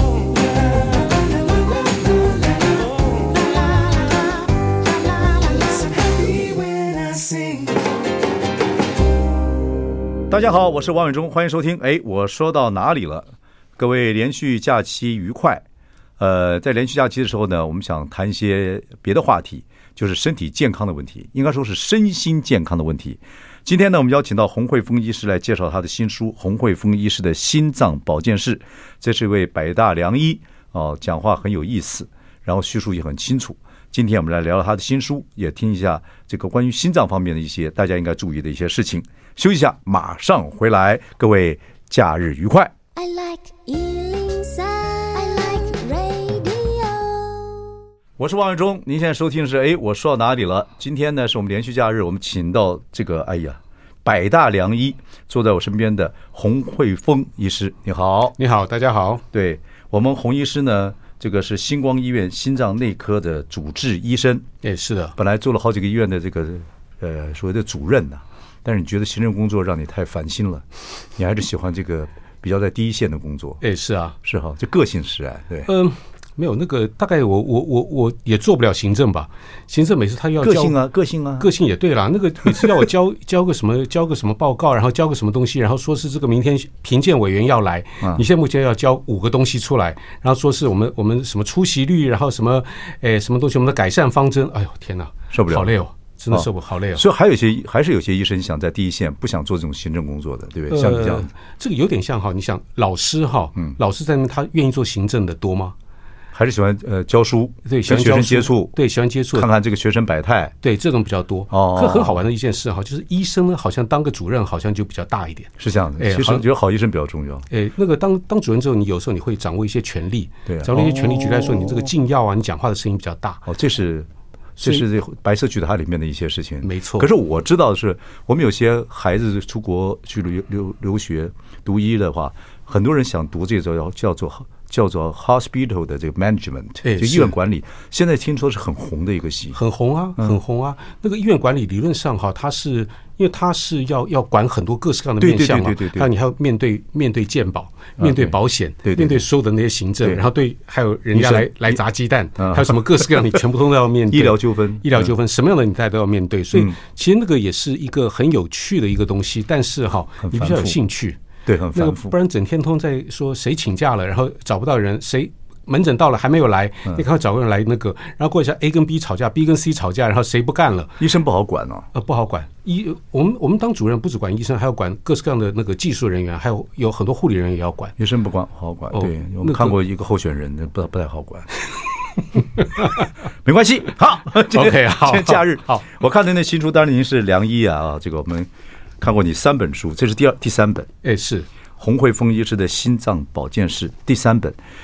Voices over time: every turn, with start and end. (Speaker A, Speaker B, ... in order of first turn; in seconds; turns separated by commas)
Speaker A: 3.2-4.3, Speaker A: 4.9-7.7, Speaker B: 10.3-15.6, Speaker B: 16.2-42.7, Speaker A: 43.0-47.7, Speaker B: 48.2-58.4, Speaker C: 58.4-59.2, Speaker B: 59.3-64.5, Speaker C: 64.6-65.2, Speaker B: 65.2-70.6, Speaker B: 71.2-73.6, Speaker C: 73.6-74.2, Speaker B: 74.2-75.7, Speaker C: 75.7-80.8, Speaker B: 80.4-81.5, Speaker C: 81.4-97.0, Speaker B: 95.3-95.7, Speaker B: 96.3-101.3, Speaker C: 100.7-105.8, Speaker B: 106.3-108.7, Speaker C: 107.7-109.5, Speaker B: 109.3-110.5, Speaker C: 110.6-116.5, Speaker B: 111.5-112.2, Speaker B: 115.6-117.5, Speaker C: 117.5-123.5, Speaker B: 120.5-121.9, Speaker B: 123.5-139.6, Speaker C: 126.6-127.1, Speaker C: 136.8-137.3, Speaker C: 139.5-161.2, Speaker B: 145.2-146.1, Speaker B: 148.0-148.3, Speaker B: 148.8-149.2, Speaker B: 151.1-151.8, Speaker B: 152.4-153.1, Speaker B: 154.1-155.1, Speaker B: 160.2-160.8, Speaker B: 161.5-162.1, Speaker C: 161.8-171.0, Speaker B: 171.0-171.9, Speaker C: 171.9-178.0, Speaker B: 178.0-181.5, Speaker C: 178.9-179.8, Speaker B: 182.6-190.9, Speaker C: 182.8-183.1, Speaker C: 184.4-185.8, Speaker C: 191.0-191.5, Speaker B: 191.8-194.6